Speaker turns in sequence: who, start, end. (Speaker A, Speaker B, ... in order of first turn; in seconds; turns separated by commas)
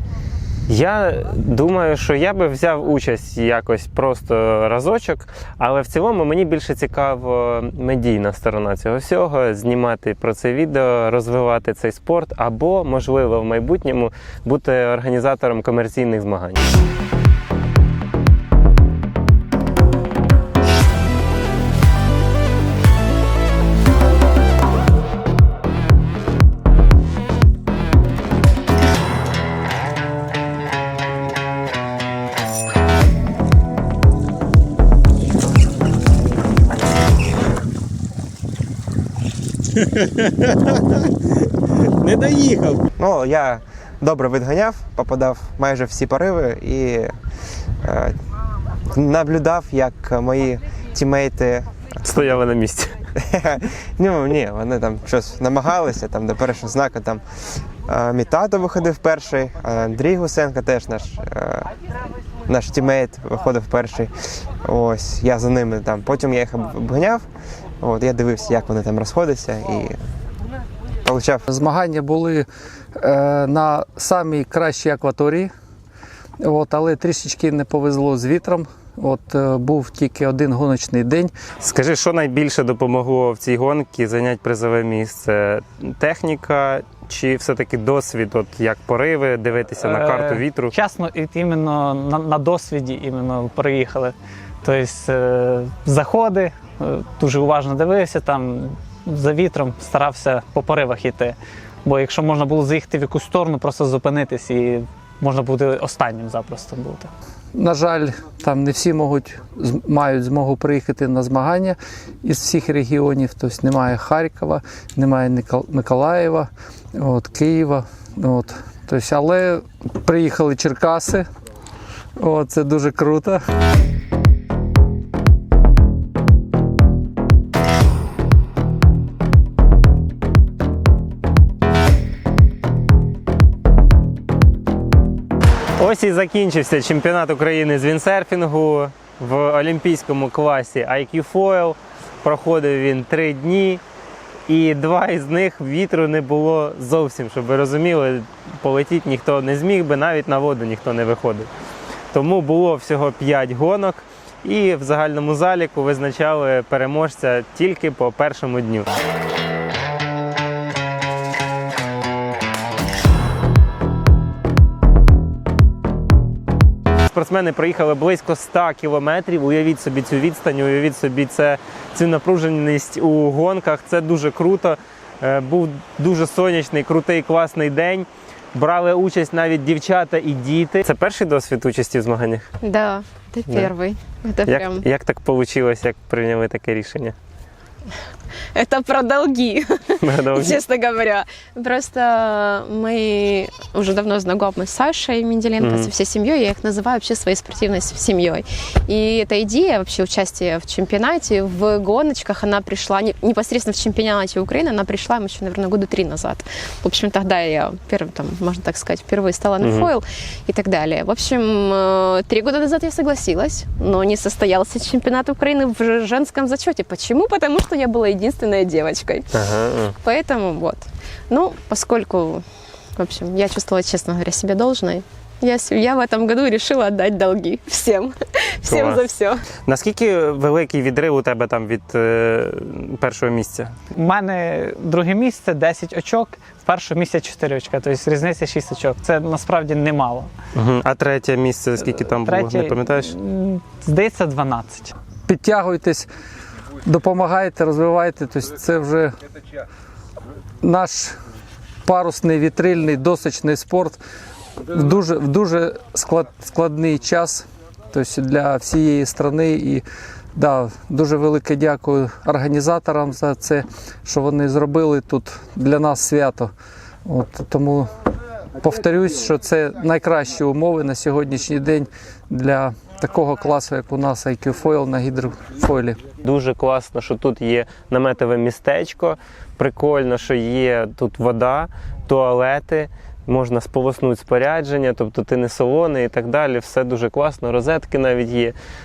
Speaker A: 0.7-16.6, Speaker A: 39.9-42.9, Speaker B: 43.0-47.1, Speaker B: 47.8-48.1, Speaker B: 48.9-51.7, Speaker A: 52.0-53.0, Speaker B: 53.2-57.2, Speaker B: 57.9-61.7, Speaker B: 62.5-64.1, Speaker B: 64.6-67.2, Speaker B: 67.8-70.0, Speaker B: 71.0-71.4, Speaker C: 71.5-72.5, Speaker C: 73.0-75.5, Speaker C: 76.4-81.3, Speaker A: 81.6-90.7, Speaker D: 89.8-107.1, Speaker C: 107.5-121.3, Speaker C: 122.2-123.4, Speaker A: 135.8-143.8, Speaker A: 144.5-151.5, Speaker A: 152.1-158.9, Speaker A: 167.1-182.5, Speaker E: 182.6-184.8, Speaker A: 184.5-187.2, Speaker E: 188.6-219.3, Speaker A: 190.0-190.6, Speaker A: 195.6-195.9, Speaker A: 209.6-209.9, Speaker A: 219.3-220.0, Speaker E: 220.0-222.4, Speaker E: 223.0-229.4, Speaker A: 228.7-229.0, Speaker A: 229.7-233.7, Speaker D: 233.9-240.3, Speaker A: 240.6-243.1, Speaker D: 241.8-244.9, Speaker C: 245.3-246.1, Speaker C: 246.8-249.1, Speaker C: 250.6-251.2, Speaker C: 251.8-254.0, Speaker C: 254.7-259.8, Speaker C: 260.4-266.5, Speaker C: 267.1-267.9, Speaker C: 268.6-276.0, Speaker A: 276.2-288.6